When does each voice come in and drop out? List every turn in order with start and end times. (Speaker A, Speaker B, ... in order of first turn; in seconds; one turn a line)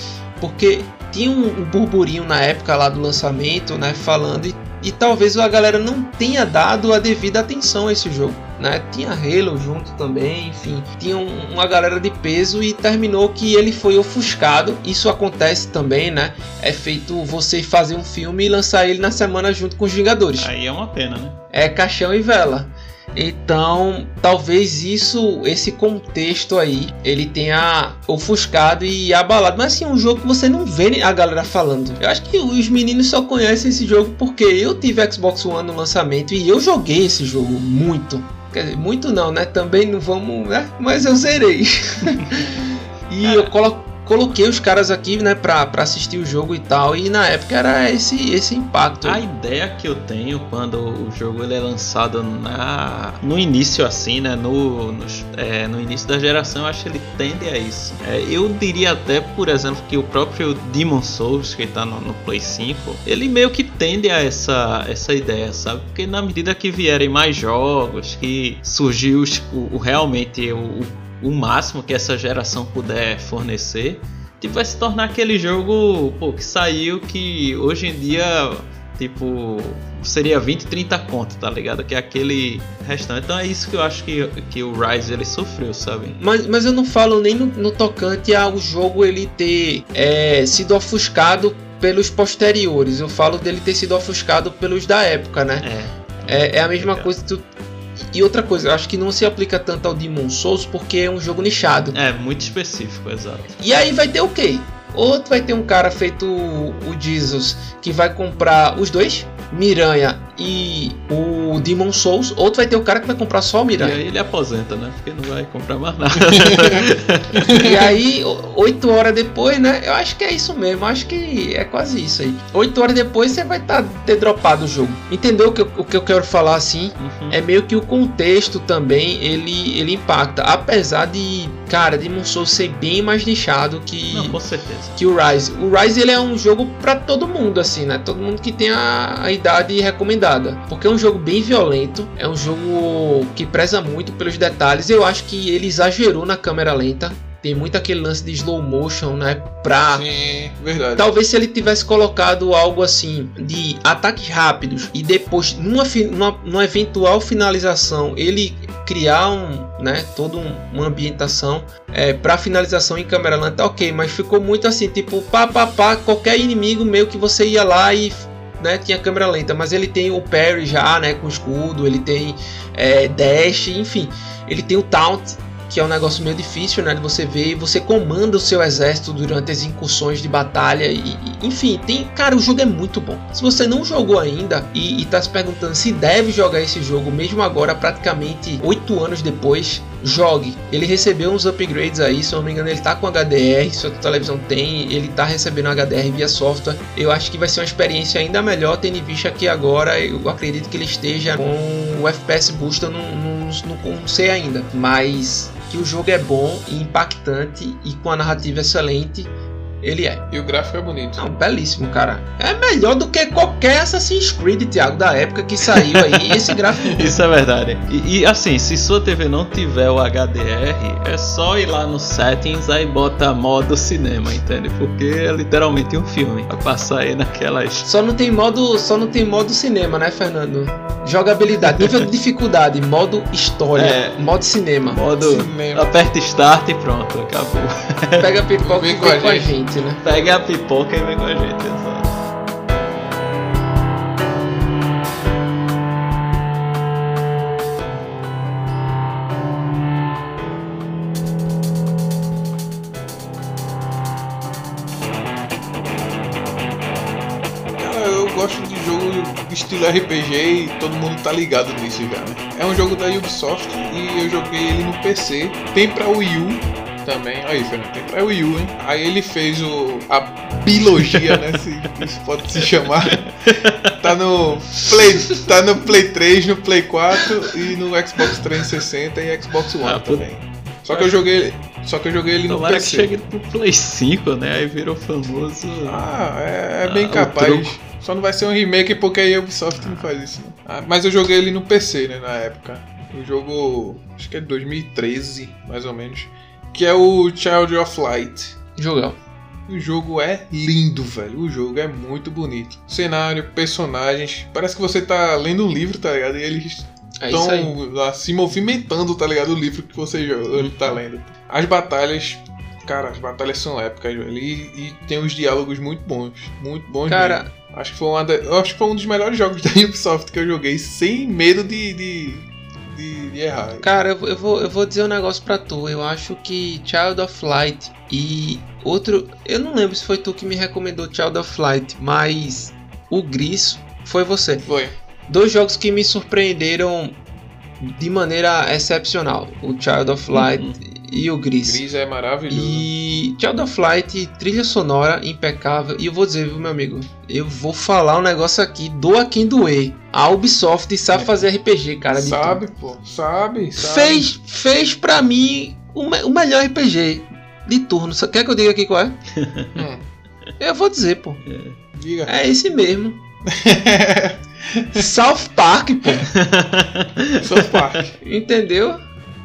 Speaker A: 0.4-20.5
Speaker B: 20.4-21.4
Speaker A: 21.5-49.2
Speaker B: 43.2-43.5
Speaker B: 49.0-86.2
Speaker A: 86.2-95.7
Speaker B: 95.6-97.1
Speaker A: 96.3-97.5
Speaker A: 98.0-102.0
Speaker B: 101.9-103.5
Speaker A: 103.6-114.0
Speaker B: 113.8-117.6
Speaker C: 116.3-116.8
Speaker C: 117.4-117.8
Speaker A: 117.5-134.4
Speaker B: 127.0-127.4
Speaker B: 134.1-135.0
Speaker A: 135.0-150.1
Speaker C: 149.9-151.1
Speaker A: 150.9-210.2
Speaker C: 210.3-211.2
Speaker A: 211.2-217.0
Speaker B: 215.7-227.9
Speaker A: 227.8-235.0
Speaker B: 233.7-234.2
Speaker B: 234.8-238.3
Speaker C: 235.2-235.9
Speaker A: 238.2-240.0
Speaker C: 238.6-239.5
Speaker B: 240.0-242.1
Speaker C: 257.8-283.1
Speaker B: 273.4-274.0
Speaker B: 279.8-280.3
Speaker B: 280.9-281.3
Speaker B: 282.5-286.0
Speaker C: 285.8-298.5
Speaker B: 286.8-287.7
Speaker A: 298.8-299.2
Speaker C: 299.7-323.9
Speaker A: 307.2-307.7
Speaker B: 310.5-310.9
Speaker A: 317.1-317.5
Speaker A: 323.8-334.6
Speaker C: 334.6-334.9
Speaker A: 335.3-337.2
Speaker A: 337.8-341.8
Speaker B: 340.3-340.8
Speaker C: 341.6-342.9
Speaker A: 342.5-352.6
Speaker C: 351.1-351.4
Speaker C: 352.1-354.3
Speaker A: 353.8-359.2
Speaker B: 359.3-359.8
Speaker C: 359.8-360.1
Speaker A: 360.6-361.4
Speaker B: 361.4-361.8
Speaker C: 361.9-362.3
Speaker A: 362.2-363.2
Speaker C: 363.4-365.1
Speaker A: 364.9-366.3
Speaker B: 366.3-368.0
Speaker C: 367.4-368.2
Speaker A: 368.2-369.0